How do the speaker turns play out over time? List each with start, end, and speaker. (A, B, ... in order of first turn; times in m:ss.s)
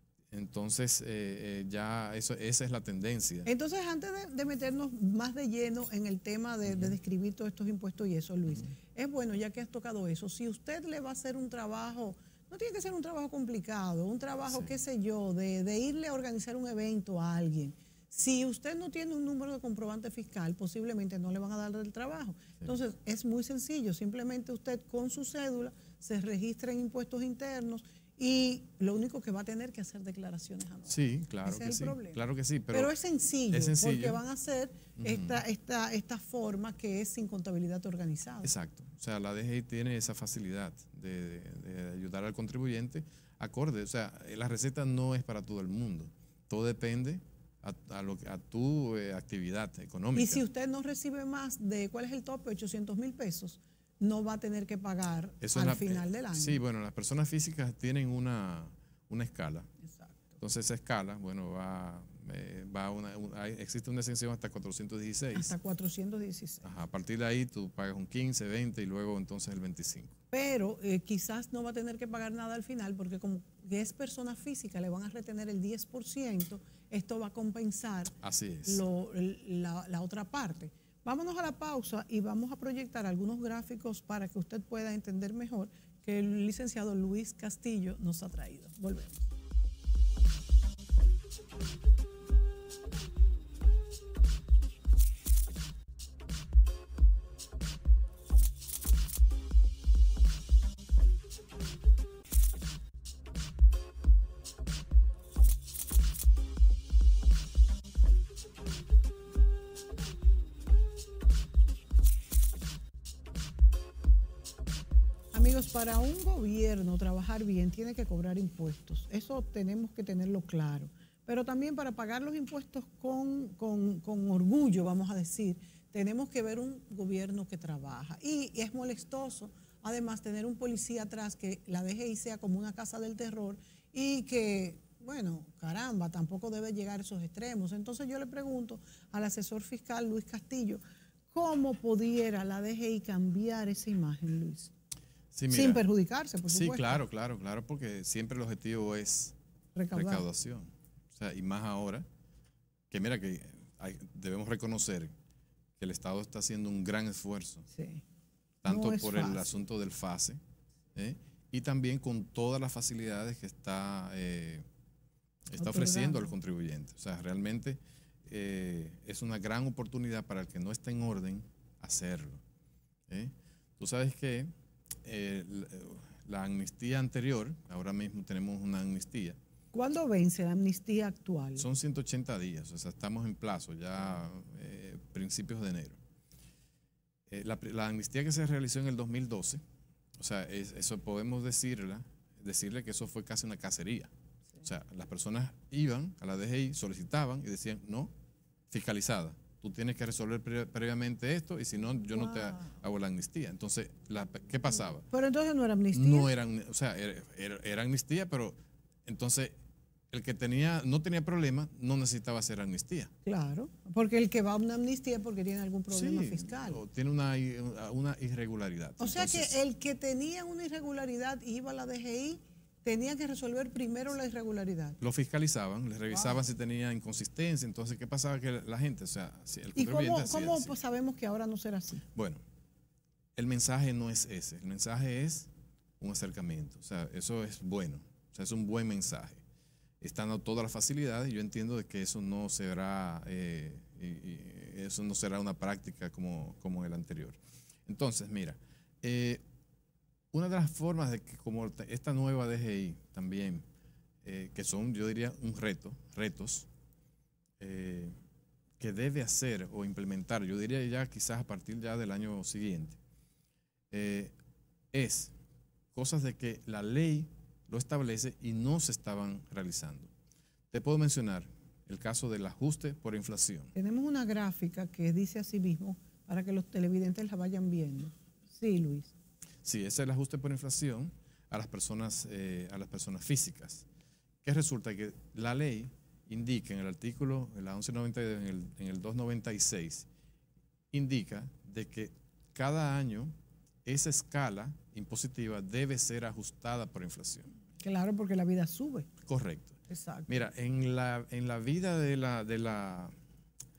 0:00.3-0:03.5 A
0:03.5-0:32.2 B
0:06.7-0:07.0 A
0:30.9-0:32.9 A
0:32.7-0:38.5 B
0:33.5-0:34.2 A
0:35.0-0:35.4 A
0:38.4-0:50.4 A
0:50.1-0:56.6 B
0:55.4-0:59.7 A
0:59.9-1:00.2 B
1:00.4-1:05.5 A
1:05.3-1:06.7 B
1:06.6-1:10.1 A
1:10.3-1:29.3 B
1:18.2-1:18.8 A
1:55.3-2:20.8 B
2:21.3-2:24.7 B
2:25.3-2:25.8 A
2:25.5-2:27.0 B
2:26.5-2:29.4 A
2:29.8-2:30.2 B
2:29.9-2:32.1 A
2:32.9-2:35.1 A
2:35.8-2:37.7 A
2:37.7-2:38.0 B
2:38.6-2:40.4 A
2:38.7-2:39.5 B
2:41.0-2:44.6 A
2:45.5-2:52.4 A
2:45.6-2:46.3 B
2:53.1-2:54.5 A
2:55.0-2:59.4 A
2:59.7-3:01.7 B
3:01.6-3:06.0 A
3:07.3-3:09.6 A
3:10.2-3:14.1 A
3:14.6-3:18.1 A
3:18.7-3:25.1 A
3:22.1-3:22.7 B
3:25.1-3:26.3 B
3:25.9-3:29.6 A
3:30.1-3:33.1 A
3:33.2-3:36.8 B
3:35.9-3:39.6 A
3:39.0-3:45.0 B
3:45.0-3:50.8 A
3:46.1-3:46.4 B
3:49.8-3:52.0 B
3:52.2-3:52.4 A
3:53.4-3:59.4 A
4:00.0-4:09.4 A
4:10.3-4:13.6 A
4:14.2-4:16.7 A
4:17.6-4:18.1 A
4:18.8-4:23.0 A
4:23.9-4:24.3 A
4:24.9-4:25.3 A
4:25.9-4:30.1 A
4:30.7-4:33.7 A
4:33.8-4:39.1 B
4:39.6-4:43.9 A
4:44.4-4:50.1 A
4:50.9-4:53.3 A
4:53.8-4:57.5 A
4:57.8-4:59.1 B
4:59.2-5:03.1 A
4:59.9-5:00.4 B